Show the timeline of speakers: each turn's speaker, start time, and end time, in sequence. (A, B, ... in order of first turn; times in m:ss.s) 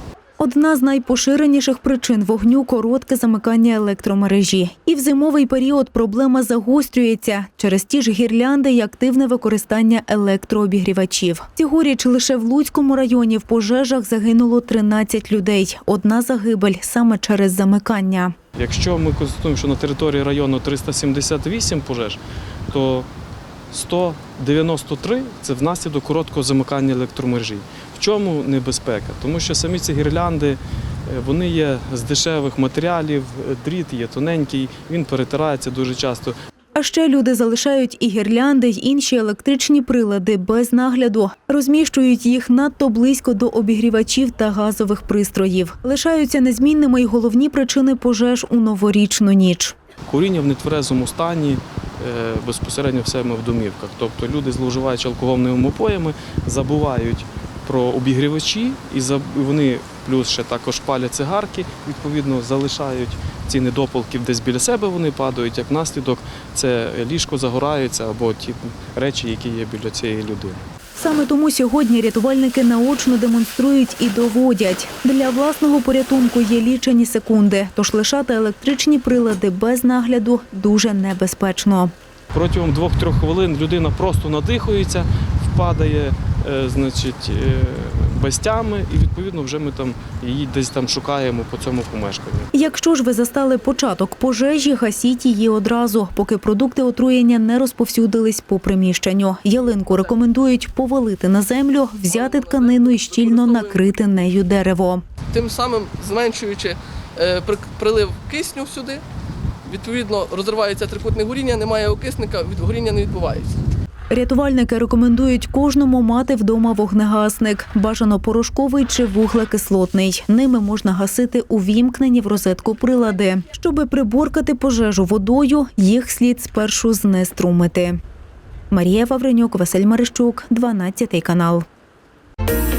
0:00.4-0:18.4 A
0:18.6-0:23.1 B
0:23.7-0:36.4 B
0:36.8-0:49.8 A
0:50.1-1:10.6 B
1:11.0-1:21.9 A
1:22.3-1:32.5 B
1:32.5-1:45.0 A
1:42.1-1:43.8 C
1:45.3-1:49.0 C
1:49.7-1:53.5 C
1:54.1-2:08.0 A
2:08.7-2:11.6 A